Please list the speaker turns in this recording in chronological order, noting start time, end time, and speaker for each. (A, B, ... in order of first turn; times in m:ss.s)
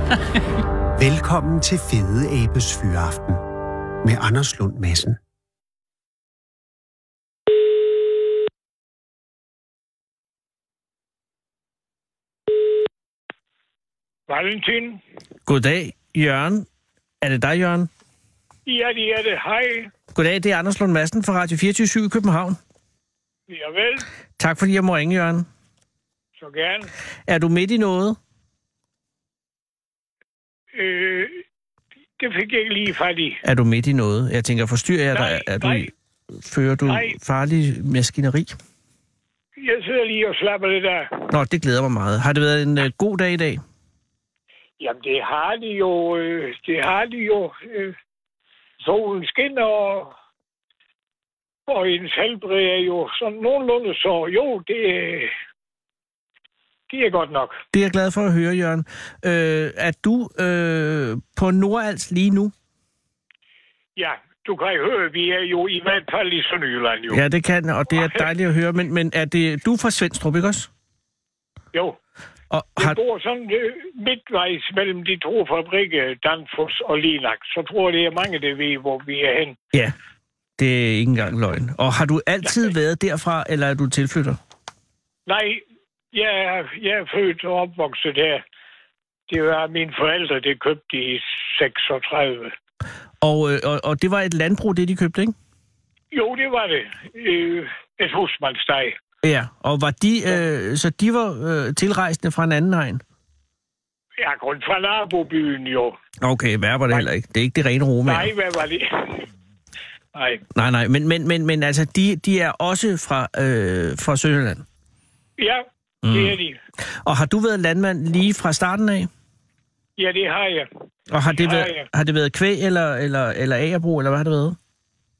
0:01.0-0:03.4 A
0:04.0-0:05.2 A
0:14.3-0:15.0 B
0:15.5-0:16.7 C
0:17.2-0:17.9 C
0:18.7-0:19.9 B
0:20.1-0:22.6 C
0:23.5-0:24.0 B
0:24.4-0:25.4 C
0:26.4-0:26.9 B
0:27.3-0:28.2 C
0:30.7-0:31.4 B
0:32.2-0:33.4 B
0:33.4-0:38.6 C
0:35.1-0:35.9 B
0:36.8-0:37.2 B
0:39.6-0:41.3 B
0:41.3-0:43.6 C
0:44.8-0:48.0 B
0:48.8-0:50.1 B
0:51.7-0:55.3 B
0:56.9-0:57.6 B
0:57.7-1:02.5 C
1:04.0-1:07.2 B
1:07.1-1:10.7 C
1:07.9-1:08.3 B
1:11.7-1:12.0 B
1:12.5-1:13.0 C
1:12.8-1:19.6 B
1:20.6-1:24.4 C
1:25.3-1:28.4 B
1:29.3-1:32.5 B
1:33.2-1:35.3 C
1:36.1-1:39.0 B
1:39.2-1:43.0 C
1:44.2-1:46.0 B
1:46.2-1:48.3 C
1:48.0-1:49.2 B
1:50.1-1:50.4 B
1:50.6-1:54.6 C
1:55.4-1:56.6 B
1:56.0-1:56.4 C
1:57.0-1:59.1 C
2:00.0-2:00.7 B
2:01.1-2:04.6 C
2:01.3-2:01.9 B